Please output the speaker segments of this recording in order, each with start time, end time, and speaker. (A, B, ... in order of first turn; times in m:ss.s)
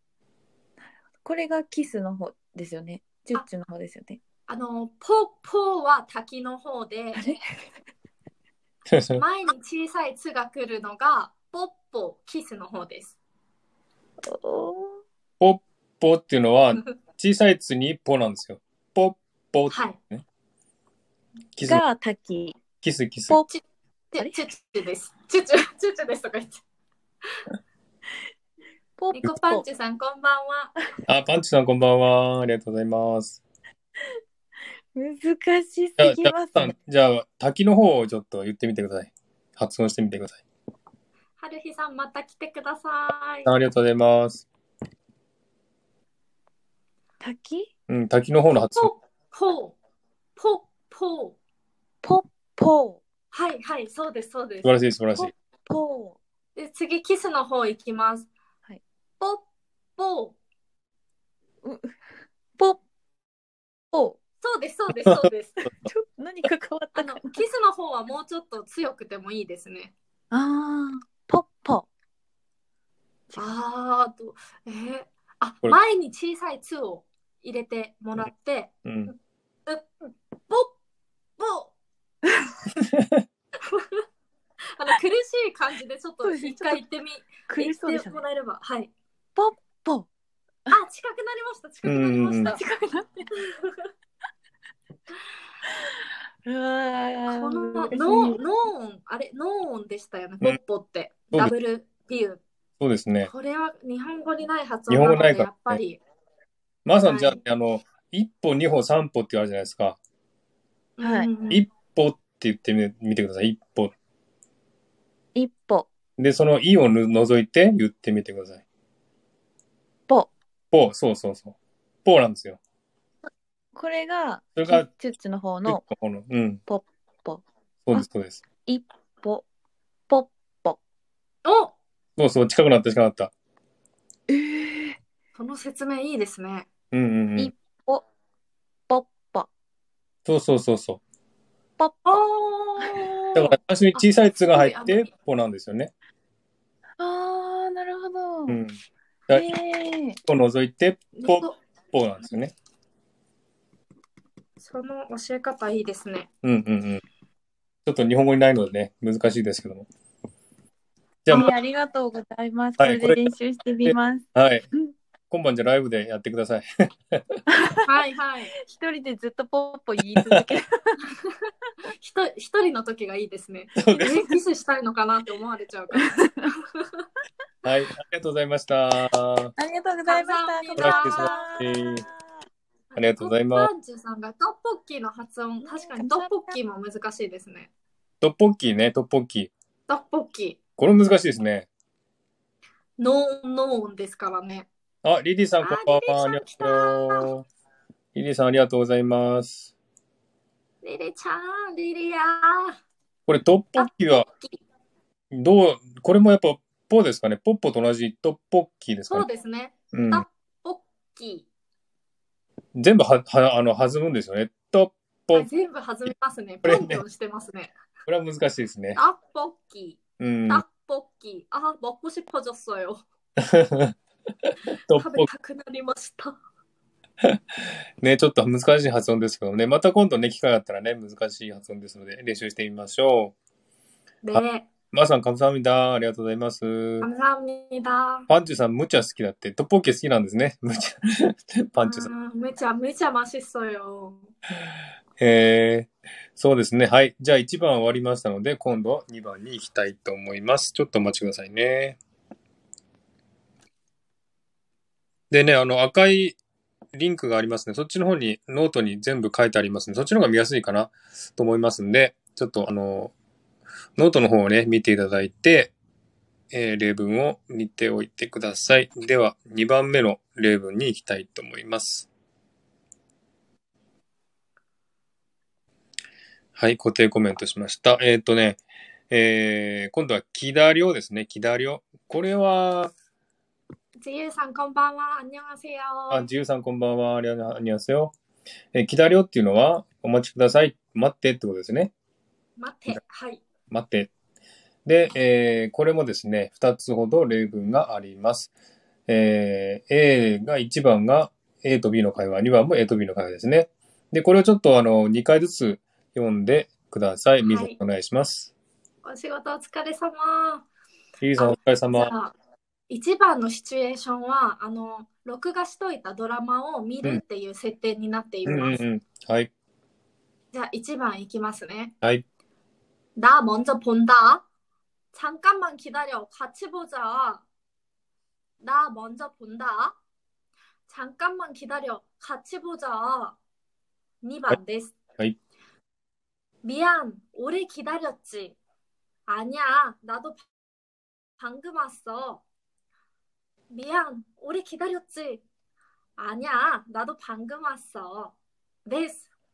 0:01.2-0:04.2 A
0:04.5-0:07.4 B
0:08.9-0:09.2 C
0:09.2-0:13.1 B
0:14.2-0:15.0 A
0:15.4-0:20.2 C
0:19.7-0:20.0 B
0:21.6-0:21.8 C
0:21.6-0:22.6 A
0:22.8-0:23.4 C
0:24.1-0:26.6 B
0:29.0-0:29.6 A
0:29.1-0:30.8 B
0:31.1-0:33.4 C
0:34.9-0:36.7 A
0:36.0-0:40.4 C
0:41.4-0:43.5 B
0:43.4-0:44.4 C
0:47.2-0:47.7 A
0:47.9-0:48.9 C
0:48.5-0:49.7 B
0:50.4-0:51.4 B
0:52.0-0:53.0 A
0:53.3-0:54.7 B
0:54.6-0:55.3 C
0:55.2-0:56.2 A
0:56.6-0:58.3 B
1:00.0-1:00.4 B
1:01.6-1:02.0 A
1:03.9-1:04.2 A
1:04.4-1:05.6 B
1:05.8-1:07.3 A
1:07.0-1:09.9 B
1:10.3-1:11.9 A
1:13.4-1:19.1 B
1:18.8-1:19.1 C
1:19.6-1:20.7 B
1:21.4-1:21.7 B
1:22.8-1:23.2 C
1:23.6-1:24.0 B
1:24.7-1:28.9 B
1:26.2-1:26.8 A
1:27.5-1:28.2 A
1:29.4-1:30.1 A
1:30.7-1:32.6 B
1:31.8-1:32.6 C
1:32.4-1:33.3 A
1:33.4-1:33.9 B
1:36.4-1:38.4 A
1:37.3-1:42.4 B
1:42.8-1:43.3 C
1:43.3-1:46.0 B
1:44.9-1:45.8 C
1:46.8-1:50.0 C
1:47.0-1:47.4 B
1:51.0-1:51.6 B
1:51.0-1:51.3 A
1:51.5-1:53.9 C
1:55.4-1:55.9 A
1:56.2-1:58.6 C
2:00.7-2:02.6 C
2:03.7-2:05.9 A
2:04.6-2:04.9 C
2:05.6-2:06.6 C
2:06.7-2:08.1 A
2:07.9-2:08.4 C
2:08.6-2:09.4 A
2:10.1-2:10.8 A
2:11.4-2:11.7 B
2:12.2-2:13.3 C
2:14.3-2:15.0 A
2:15.4-2:16.7 B
2:16.9-2:17.5 C
2:17.4-2:18.0 A
2:18.9-2:19.5 A
2:20.2-2:21.0 C
2:21.8-2:22.2 A
2:22.1-2:25.1 B
2:23.4-2:25.9 C
2:27.0-2:28.6 A
2:28.5-2:29.5 C
2:29.3-2:30.2 A
2:30.2-2:32.5 C
2:31.2-2:31.5 B
2:34.6-2:36.3 B
2:36.4-2:37.0 C
2:37.9-2:39.9 C
2:41.2-2:41.5 C
2:41.3-2:44.3 A
2:42.8-2:43.2 C
2:43.8-2:44.6 C
2:45.3-2:47.4 C
2:47.5-2:47.9 A
2:47.9-2:48.5 B
2:48.6-2:51.1 A
2:52.0-2:57.0 B
2:53.8-2:54.1 C
2:55.9-2:56.5 A
2:57.6-2:59.5 C
2:59.6-3:02.2 A
3:00.1-3:01.5 B
3:00.8-3:02.1 C
3:02.9-3:07.7 B
3:03.0-3:03.7 C
3:05.6-3:06.6 A
3:08.2-3:09.5 C
3:09.9-3:10.6 B
3:10.8-3:11.7 C
3:13.0-3:14.7 B
3:15.0-3:17.4 C
3:15.6-3:17.3 B
3:18.1-3:19.7 C
3:20.8-3:22.8 B
3:23.3-3:24.2 C
3:23.8-3:24.6 B
3:25.3-3:29.2 C
3:29.1-3:31.4 B
3:29.9-3:30.2 C
3:32.7-3:35.5 C
3:35.3-3:37.7 B
3:36.6-3:37.0 C
3:38.1-3:39.0 C
3:39.0-3:43.0 B
3:40.2-3:40.6 C
3:43.4-3:43.9 C
3:44.9-3:45.3 C
3:45.0-3:46.4 B
3:48.0-3:53.3 C
3:54.2-3:54.7 B
3:54.3-3:57.1 C
3:57.0-3:58.3 B
3:58.3-4:02.1 C
4:01.8-4:04.3 B
4:05.2-4:12.0 C
4:15.3-4:16.4 C
4:16.9-4:23.1 C
4:24.0-4:25.7 C
4:26.5-4:32.1 C
4:36.6-4:42.9 C
4:44.0-4:46.2 B
4:46.1-4:48.1 C
4:48.7-4:51.9 C
4:52.6-4:53.4 B
4:53.7-4:54.1 C
4:54.9-4:58.5 C
4:59.1-5:08.5 C
5:07.4-5:07.7 B
5:09.0-5:10.6 B
5:11.2-5:12.1 C
5:11.4-5:12.3 B
5:12.9-5:18.8 B
5:18.4-5:19.5 C
5:20.5-5:21.9 B
5:23.2-5:24.4 B
5:25.1-5:27.4 B
5:28.6-5:30.0 B
5:30.9-5:33.4 B
5:34.2-5:35.0 B
5:36.6-5:38.6 B
5:39.3-5:40.4 B
5:41.4-5:42.4 B
5:43.7-5:45.4 B
5:46.2-5:48.3 B
5:48.9-5:49.3 B